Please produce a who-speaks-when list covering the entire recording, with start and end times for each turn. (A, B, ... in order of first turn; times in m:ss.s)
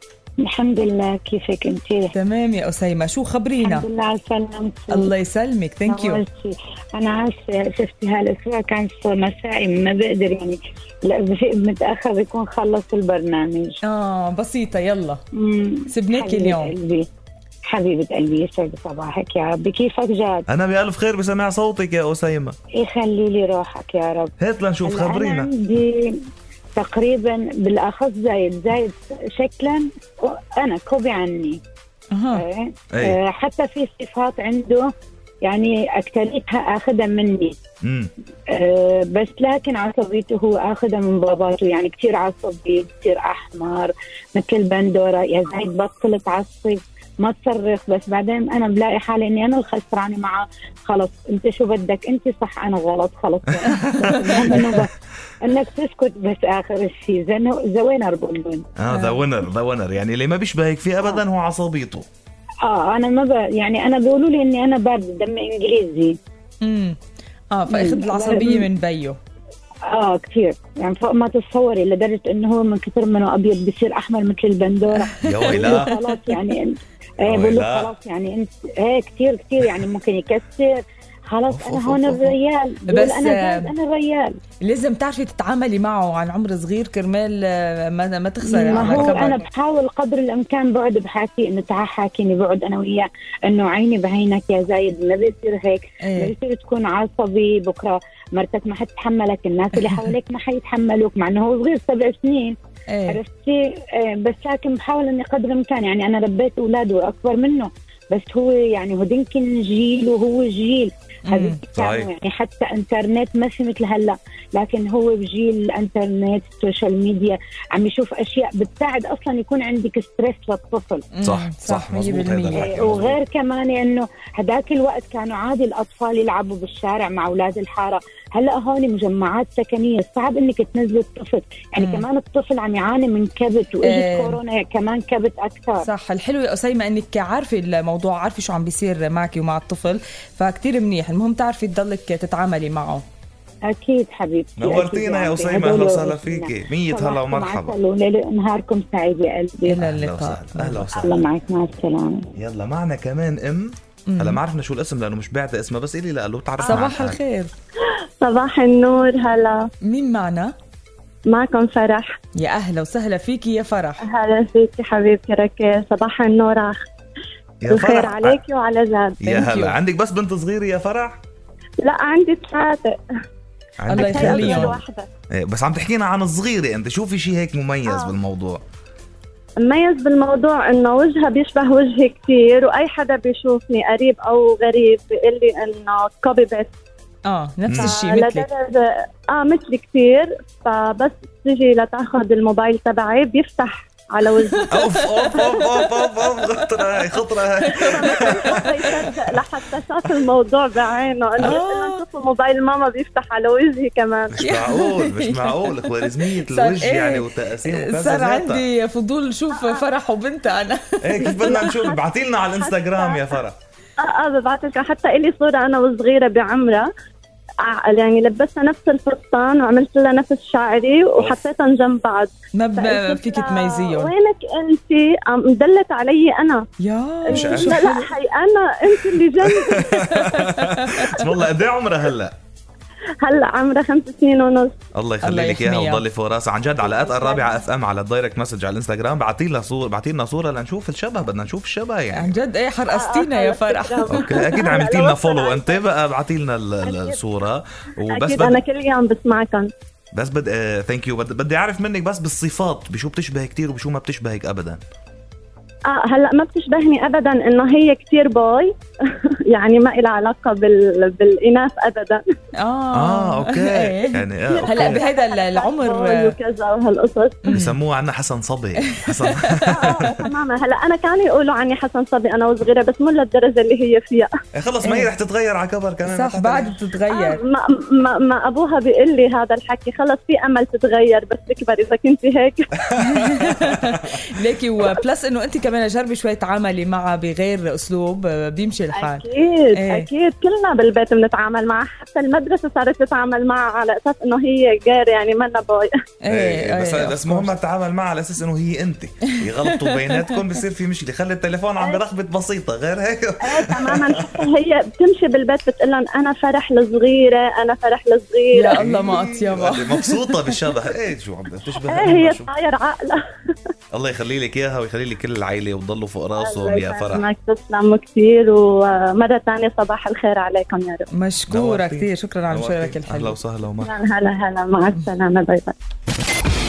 0:00.4-0:02.1 A
0:02.1-0:03.9 B
0:03.6-0:05.1 A
0:04.9-0:06.2 B
0:05.9-0:13.8 A
0:13.8-0:15.2 B
0:15.4-0:17.1 A
0:15.9-0:16.7 B
0:17.7-0:20.5 A
0:20.5-0:22.6 C
0:22.8-0:24.3 A
0:24.4-0:25.5 C
0:24.9-0:26.2 A
0:26.8-0:31.6 A
0:32.1-0:32.4 B
0:32.3-0:34.9 A
0:35.4-0:37.6 A
0:37.8-0:38.1 C
0:38.5-0:58.7 A
0:54.0-0:54.6 B
0:58.8-1:02.1 C
0:58.9-0:59.2 B
1:02.6-1:06.2 A
1:06.6-1:07.0 B
1:07.5-1:09.2 B
1:07.7-1:08.7 A
1:09.9-1:24.4 A
1:15.0-1:16.0 B
1:15.2-1:15.9 C
1:17.2-1:17.9 C
1:21.5-1:22.3 C
1:22.9-1:23.7 B
1:24.6-1:29.4 B
1:28.4-1:42.6 A
1:28.7-1:29.2 C
1:36.0-1:36.3 B
1:42.9-1:43.2 B
1:43.1-2:01.0 A
1:51.3-1:51.6 B
1:51.8-1:52.1 C
2:01.1-2:02.7 B
2:01.2-2:03.2 C
2:02.5-2:15.9 A
2:11.8-2:12.0 B
2:13.8-2:14.4 B
2:15.8-2:23.0 B
2:23.7-2:29.8 A
2:24.6-2:27.8 C
2:29.7-2:30.9 B
2:29.8-2:31.2 C
2:31.0-2:32.3 A
2:32.4-2:37.2 C
2:34.1-2:34.4 B
2:36.6-2:37.5 B
2:38.2-2:39.7 D
2:39.8-2:40.5 B
2:41.3-2:42.2 D
2:42.4-2:44.0 B
2:44.1-2:46.8 D
2:47.6-2:48.4 C
2:47.7-2:49.4 D
2:49.2-2:51.2 C
2:49.3-2:49.8 B
2:51.8-2:52.9 D
2:53.8-2:54.8 C
2:53.9-2:54.8 B
2:53.9-2:55.1 D
2:55.3-2:58.6 C
2:57.9-2:58.1 D
2:59.6-3:06.7 D
3:07.3-3:08.5 B
3:07.7-3:08.0 C
3:07.8-3:14.8 D
3:14.7-3:19.2 C
3:15.3-3:15.6 D
3:17.7-3:24.4 D
3:17.8-3:18.6 B
3:21.4-3:22.0 B
3:24.3-3:28.6 C
3:24.4-3:31.4 B
3:29.5-3:29.9 D
3:31.0-3:33.6 C
3:31.2-3:32.0 D
3:32.6-3:33.4 D
3:34.0-3:36.9 D
3:37.6-3:46.7 D
3:42.6-3:44.1 B
3:46.8-3:48.1 B
3:47.3-3:50.1 D
3:47.3-3:47.8 C
3:49.6-3:52.4 C
3:50.2-3:50.9 B
3:53.2-3:54.8 D
3:55.0-4:02.3 C
3:55.2-3:56.0 B
3:56.8-3:57.6 D
4:02.1-4:04.4 B
4:02.9-4:05.8 D
4:04.1-4:08.6 C
4:06.8-4:07.2 D
4:08.1-4:09.7 D
4:10.1-4:14.8 C
4:15.9-4:22.3 D
4:22.6-4:26.3 B
4:22.9-4:25.0 C
4:24.5-4:27.4 D
4:27.4-4:27.8 B
4:27.5-4:30.3 C
4:29.1-4:30.1 B
4:29.7-4:34.3 D
4:34.6-4:36.8 C
4:34.8-4:35.1 B
4:36.0-4:37.4 B
4:37.1-4:42.7 D
4:43.0-4:50.1 B
4:43.1-4:44.0 C
4:48.9-4:55.9 D
4:56.2-4:57.5 B
4:56.3-5:04.4 C
4:59.4-5:00.4 B
5:03.4-5:08.8 D
5:08.5-5:10.6 B
5:08.8-5:12.5 C
5:11.9-5:13.2 D
5:13.9-5:17.2 C
5:16.4-5:21.1 D
5:21.1-5:23.4 B
5:21.5-5:23.9 C
5:23.8-5:25.8 D